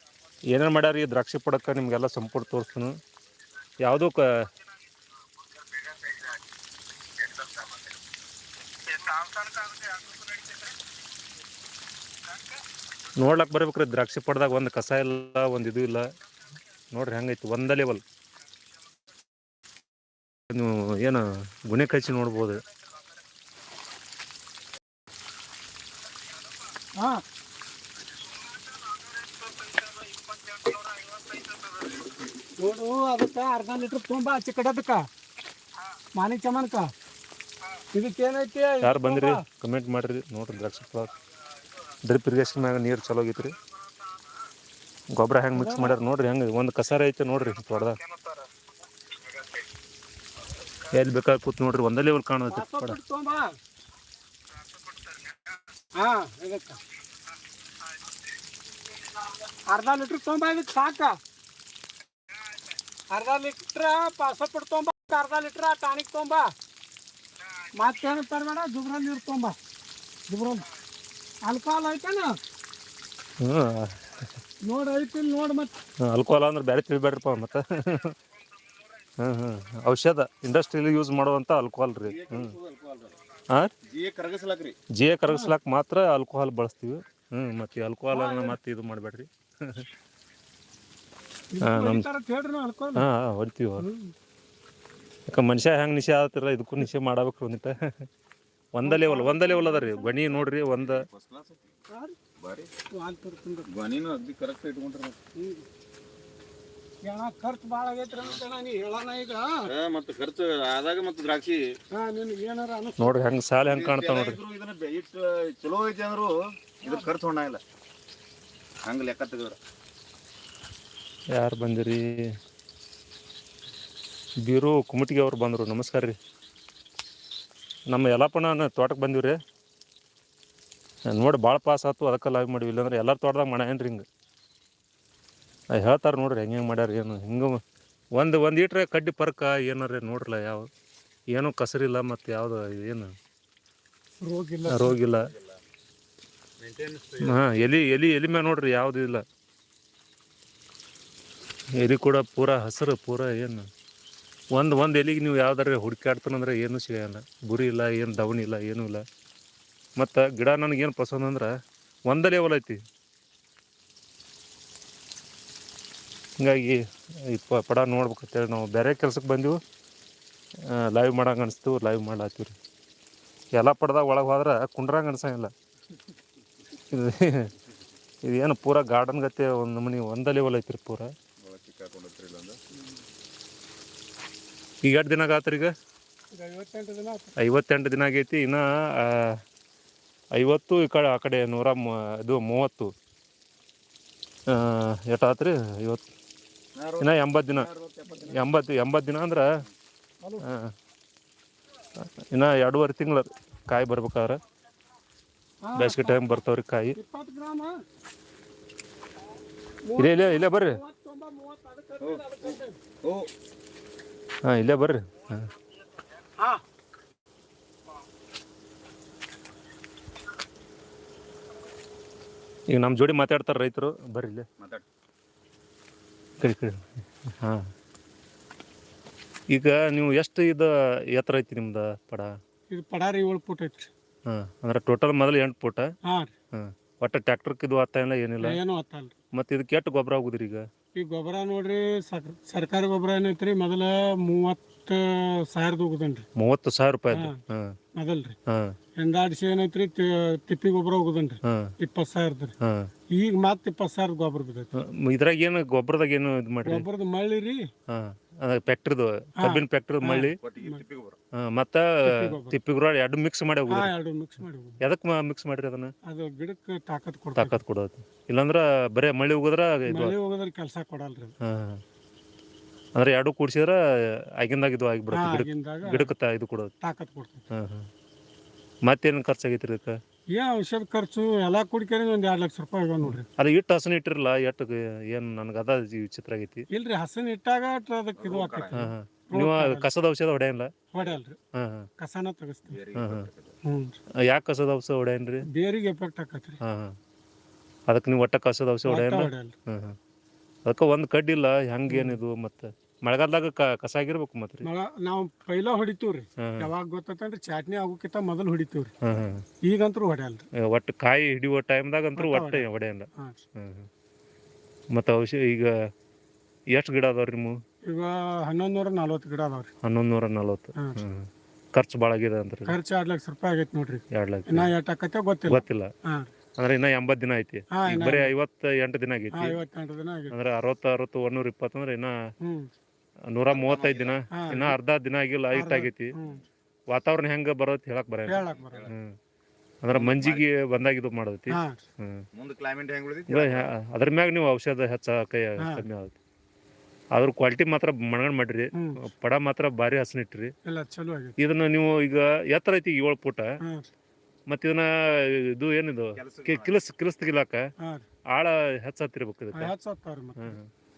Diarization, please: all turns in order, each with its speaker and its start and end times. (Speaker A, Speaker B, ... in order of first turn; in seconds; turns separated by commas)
Speaker A: 0.5-3.0, Speaker A: 3.8-4.2, Speaker A: 8.9-9.7, Speaker A: 13.2-16.1, Speaker A: 16.9-18.0, Speaker A: 20.5-22.6, Speaker B: 32.6-35.0, Speaker B: 36.2-36.9, Speaker B: 37.9-39.4, Speaker A: 38.8-41.1, Speaker A: 42.0-43.5, Speaker A: 45.1-48.0, Speaker B: 45.5-46.0, Speaker A: 50.9-53.0, Speaker B: 52.5-53.4, Speaker B: 56.0-56.8, Speaker B: 59.7-61.2, Speaker B: 63.1-66.5, Speaker B: 67.8-69.6, Speaker B: 70.3-70.7, Speaker B: 71.5-72.3, Speaker A: 73.4-74.3, Speaker B: 74.6-75.7, Speaker A: 76.1-78.2, Speaker A: 79.2-82.5, Speaker C: 82.0-83.2, Speaker C: 83.8-84.8, Speaker A: 85.0-89.9, Speaker B: 85.3-85.5, Speaker B: 88.1-88.6, Speaker B: 91.5-93.0, Speaker A: 91.6-92.1, Speaker A: 93.0-93.9, Speaker B: 93.8-94.1, Speaker A: 95.3-98.1, Speaker A: 98.7-101.0, Speaker B: 98.8-100.2, Speaker C: 100.2-101.7, Speaker B: 101.9-102.2, Speaker C: 102.4-102.7, Speaker B: 103.0-103.7, Speaker C: 103.7-105.2, Speaker B: 105.4-105.7, Speaker B: 107.0-109.7, Speaker C: 109.7-111.6, Speaker B: 111.9-113.2, Speaker A: 113.0-114.4, Speaker C: 113.7-117.6, Speaker B: 116.8-117.1, Speaker C: 118.8-119.6, Speaker A: 121.4-122.0, Speaker A: 124.4-126.2, Speaker A: 127.9-129.4, Speaker A: 131.1-134.1, Speaker A: 135.7-137.6, Speaker A: 138.2-140.7, Speaker A: 141.3-143.1, Speaker B: 144.2-145.0, Speaker A: 144.7-145.3, Speaker C: 145.3-145.6, Speaker C: 146.6-147.4, Speaker A: 147.2-149.2, Speaker A: 151.8-153.7, Speaker A: 154.5-159.0, Speaker A: 160.0-161.5, Speaker A: 162.1-162.8, Speaker A: 166.4-169.6, Speaker A: 170.7-172.6, Speaker A: 173.6-175.5, Speaker A: 176.9-177.5, Speaker A: 178.2-181.1, Speaker C: 181.4-182.8, Speaker A: 184.8-185.7, Speaker B: 186.3-187.3, Speaker A: 187.4-189.3, Speaker A: 190.4-192.9, Speaker A: 194.5-196.1, Speaker C: 196.8-198.5, Speaker A: 197.0-199.5, Speaker A: 200.4-200.7, Speaker A: 202.0-204.4, Speaker B: 205.6-206.3, Speaker A: 205.8-207.0, Speaker B: 206.9-207.7, Speaker B: 209.9-212.8, Speaker A: 210.0-210.8, Speaker C: 212.0-213.3, Speaker A: 214.4-215.5, Speaker A: 222.7-224.5, Speaker A: 226.4-226.8, Speaker A: 227.4-227.7, Speaker A: 229.5-232.3, Speaker B: 232.7-233.9, Speaker A: 234.3-235.8, Speaker A: 236.5-238.6, Speaker B: 238.4-239.1, Speaker A: 239.3-240.6, Speaker B: 241.0-246.3, Speaker A: 246.4-247.7, Speaker B: 248.0-248.3, Speaker B: 249.0-252.5, Speaker A: 251.4-251.7, Speaker A: 252.6-252.9, Speaker B: 253.2-254.7, Speaker A: 254.8-256.9, Speaker B: 256.6-257.6, Speaker A: 257.9-260.4, Speaker B: 259.4-260.8, Speaker C: 260.4-261.2, Speaker A: 261.5-263.9, Speaker B: 262.1-262.6, Speaker B: 263.7-264.8, Speaker A: 264.8-265.9, Speaker B: 266.1-267.6, Speaker A: 267.4-270.1, Speaker B: 269.9-271.3, Speaker A: 271.4-271.8, Speaker A: 273.0-273.8, Speaker A: 274.4-276.7, Speaker B: 275.1-276.1, Speaker B: 276.8-277.4, Speaker A: 277.5-277.9, Speaker A: 278.9-279.9, Speaker B: 280.4-283.3, Speaker A: 283.1-286.6, Speaker B: 286.7-289.9, Speaker C: 288.2-288.8, Speaker A: 288.8-290.7, Speaker B: 290.9-291.4, Speaker A: 291.6-291.9, Speaker B: 292.0-292.8, Speaker C: 292.7-293.6, Speaker A: 293.0-293.3, Speaker B: 293.7-294.0, Speaker A: 294.3-295.5, Speaker B: 295.5-296.6, Speaker A: 296.6-296.9, Speaker A: 297.9-300.0, Speaker B: 298.9-299.5, Speaker A: 300.7-304.7, Speaker B: 301.9-302.2, Speaker B: 304.6-308.9, Speaker A: 306.4-306.7, Speaker A: 309.0-309.4, Speaker B: 309.7-310.4, Speaker A: 310.6-313.9, Speaker B: 312.2-312.6, Speaker A: 314.9-315.7, Speaker A: 316.7-317.5, Speaker B: 317.9-319.7, Speaker A: 319.8-322.8, Speaker B: 322.7-326.3, Speaker A: 324.1-324.7, Speaker A: 325.5-325.9, Speaker A: 326.6-329.6, Speaker B: 327.8-328.3, Speaker B: 329.4-330.4, Speaker A: 330.3-332.1, Speaker B: 332.4-332.7, Speaker A: 333.3-336.1, Speaker C: 333.5-334.2, Speaker B: 334.3-334.8, Speaker B: 335.5-336.4, Speaker A: 336.9-339.1, Speaker B: 338.3-338.9, Speaker C: 338.5-338.9, Speaker A: 339.8-342.2, Speaker C: 339.9-340.4, Speaker B: 341.5-341.8, Speaker C: 342.3-343.7, Speaker A: 343.3-346.2, Speaker A: 347.1-350.5, Speaker B: 348.7-349.0, Speaker B: 350.7-351.4, Speaker A: 351.4-353.4, Speaker A: 354.5-357.6, Speaker C: 356.2-356.8, Speaker A: 358.3-359.7, Speaker B: 359.5-360.6, Speaker A: 360.4-360.7